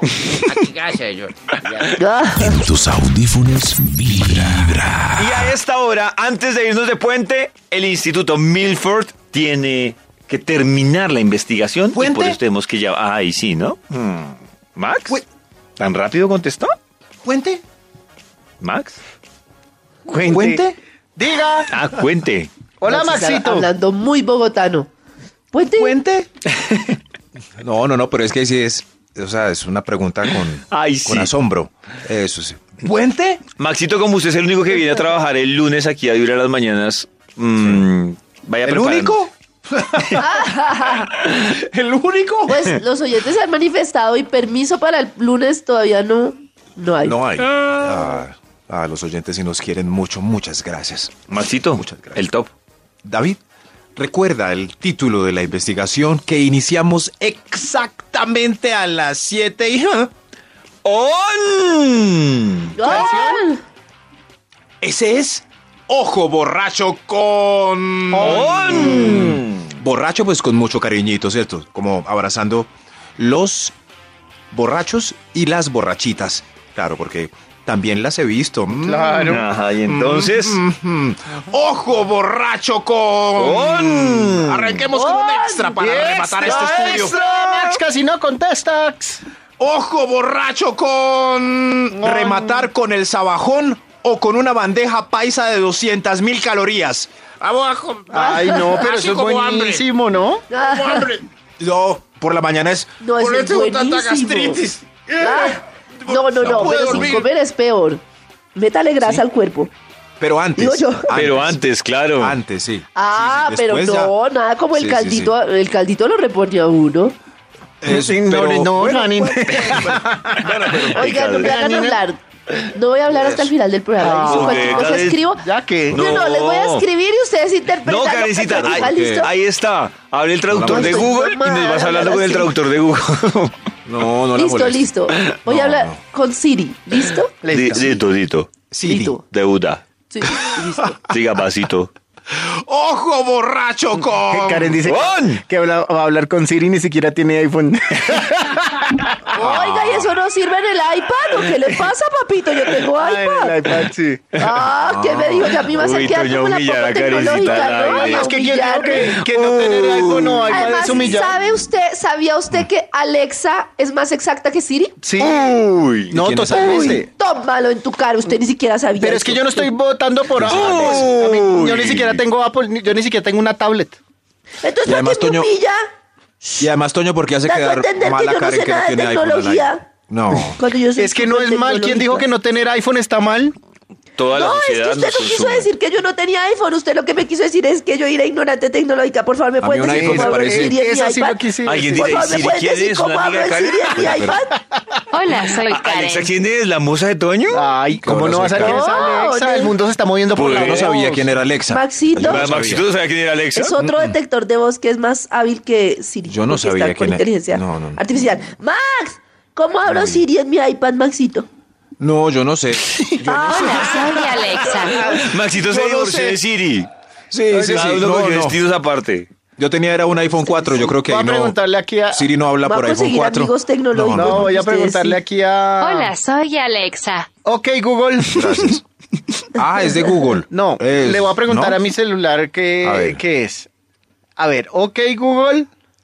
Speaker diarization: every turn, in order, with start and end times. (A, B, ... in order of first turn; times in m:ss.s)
0:00.2-0:00.6 A
0:00.5-0:02.0 B
0:01.5-0:01.8 A
0:02.0-0:02.6 C
0:02.3-0:05.5 D
0:05.1-0:15.2 A
0:11.9-0:12.4 E
0:15.8-0:16.7 A
0:17.2-0:17.6 E
0:18.6-0:19.0 A
0:20.1-0:21.7 F
0:20.3-0:20.7 E
0:21.7-0:22.5 A
0:22.8-0:23.7 F
0:22.9-0:24.9 C
0:25.5-0:26.0 C
0:25.8-0:26.3 E
0:27.6-0:33.4 E
0:30.7-0:31.3 A
0:33.6-0:39.3 A
0:37.6-0:37.8 E
0:38.6-0:40.3 E
0:40.2-0:41.1 C
0:41.4-0:42.6 E
0:42.5-0:47.2 C
0:47.0-0:52.3 E
0:51.3-0:52.5 A
0:53.0-0:53.4 E
0:54.0-1:00.1 E
1:00.8-1:02.7 A
1:02.8-1:03.6 C
1:02.8-1:03.4 F
1:04.8-1:13.7 E
1:08.1-1:09.4 F
1:08.2-1:09.6 A
1:14.5-1:27.1 E
1:18.7-1:19.4 F
1:19.2-1:20.6 A
1:23.4-1:24.9 A
1:24.9-1:26.1 C
1:25.8-1:29.2 F
1:26.4-1:27.8 A
1:29.6-1:38.0 E
1:32.0-1:32.7 F
1:37.6-1:38.3 B
1:38.1-1:40.4 F
1:38.1-1:38.8 C
1:38.9-1:39.8 B
1:40.5-1:41.1 C
1:40.7-1:41.1 B
1:41.6-1:45.3 E
1:43.0-1:44.6 C
1:45.2-1:48.0 C
1:46.0-1:47.3 E
1:46.6-1:47.2 A
1:48.5-1:49.7 C
1:50.2-1:51.6 E
1:50.6-1:51.1 C
1:51.1-1:52.4 A
1:52.2-1:54.1 E
1:52.9-1:57.2 C
1:54.7-1:55.3 E
1:57.8-2:01.1 E
1:57.8-2:00.4 F
1:58.3-1:58.6 A
1:59.5-1:59.9 A
2:00.4-2:01.6 A
2:00.9-2:09.3 C
2:01.5-2:02.0 F
2:03.1-2:03.5 E
2:04.0-2:06.0 F
2:04.2-2:05.2 A
2:05.9-2:06.9 A
2:07.8-2:13.5 A
2:08.5-2:09.3 E
2:10.5-2:11.1 E
2:10.6-2:12.5 C
2:13.8-2:14.9 E
2:14.4-2:17.3 C
2:15.4-2:16.0 E
2:17.4-2:17.9 F
2:17.4-2:18.5 A
2:18.7-2:19.2 E
2:18.8-2:19.2 C
2:19.3-2:19.8 A
2:20.1-2:21.0 C
2:20.3-2:20.6 E
2:21.1-2:21.9 A
2:22.3-2:24.7 E
2:24.1-2:29.2 F
2:24.8-2:25.4 A
2:29.3-2:30.1 E
2:29.3-2:33.6 C
2:33.0-2:34.2 F
2:34.4-2:39.1 C
2:34.8-2:35.7 E
2:35.6-2:38.3 A
2:37.4-2:41.4 F
2:38.9-2:41.2 A
2:40.5-2:45.0 C
2:45.0-2:45.6 F
2:45.2-2:46.8 A
2:46.1-2:47.1 F
2:46.1-2:47.0 E
2:47.0-2:49.7 C
2:49.0-2:54.0 F
2:50.3-2:51.2 E
2:50.4-2:51.9 A
2:51.7-2:52.2 E
2:54.6-2:55.8 C
2:54.8-2:55.5 E
2:56.6-3:00.6 E
2:57.4-2:59.9 C
3:00.6-3:02.3 C
3:01.0-3:03.5 F
3:04.2-3:05.7 A
3:04.2-3:14.5 C
3:09.6-3:10.8 E
3:09.8-3:12.4 F
3:11.6-3:14.3 A
3:13.9-3:14.4 E
3:15.1-3:16.3 G
3:15.6-3:17.6 A
3:17.5-3:21.4 F
3:18.0-3:18.9 E
3:18.6-3:19.7 C
3:20.3-3:20.9 A
3:20.4-3:22.9 E
3:21.7-3:22.4 C
3:22.2-3:23.8 A
3:23.5-3:31.4 C
3:23.8-3:24.2 E
3:26.3-3:28.0 E
3:29.8-3:30.2 E
3:32.0-3:36.4 E
3:33.3-3:35.1 G
3:33.3-3:34.0 C
3:34.9-3:36.9 A
3:37.3-3:38.6 E
3:37.5-3:38.0 F
3:37.7-3:39.3 A
3:39.6-3:41.6 E
3:40.5-3:42.3 F
3:42.1-3:44.5 E
3:42.6-3:45.2 C
3:44.1-3:46.1 F
3:45.8-3:47.3 G
3:47.4-3:48.7 F
3:48.3-3:48.8 E
3:49.5-3:51.8 E
3:50.5-3:53.7 F
3:52.8-3:53.2 E
3:54.4-3:55.7 F